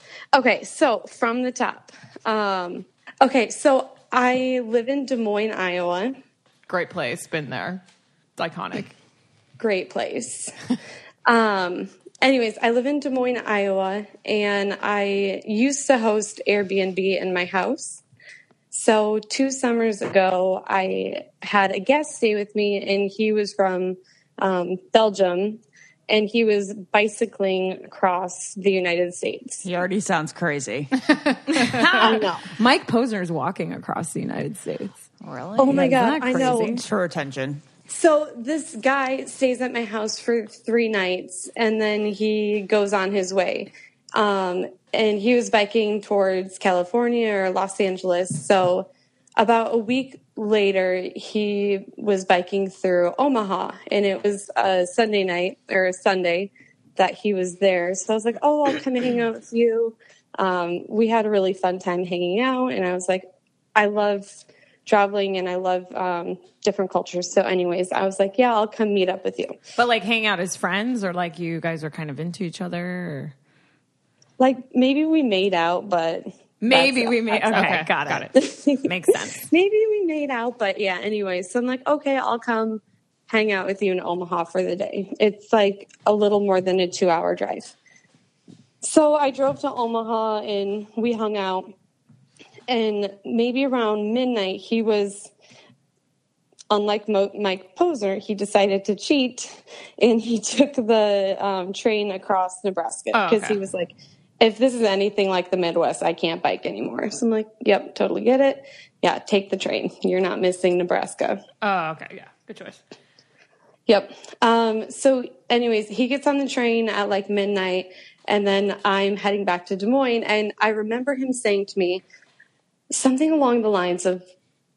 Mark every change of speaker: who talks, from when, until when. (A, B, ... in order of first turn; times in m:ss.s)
0:00.3-0:06.2 A
0:06.7-0:07.8 B
0:08.4-0:08.9 B
0:09.6-0:10.5 A
0:11.2-0:18.0 A
0:18.7-0:29.6 A
0:29.6-0:30.9 C
0:31.5-0:35.0 D
0:31.9-0:32.4 A
0:35.2-0:37.6 C
0:35.6-0:36.8 A
0:35.7-0:36.8 D
0:37.9-1:04.3 A
1:04.8-1:09.5 A
1:09.8-1:13.3 D
1:14.4-1:17.7 A
1:16.6-1:19.4 D
1:17.5-1:18.3 B
1:18.3-1:27.7 A
1:28.8-1:31.7 A
1:32.7-1:35.3 A
1:36.7-1:51.4 A
1:43.1-1:43.6 B
1:51.6-1:52.8 B
1:53.9-2:02.0 A
2:02.9-2:04.2 A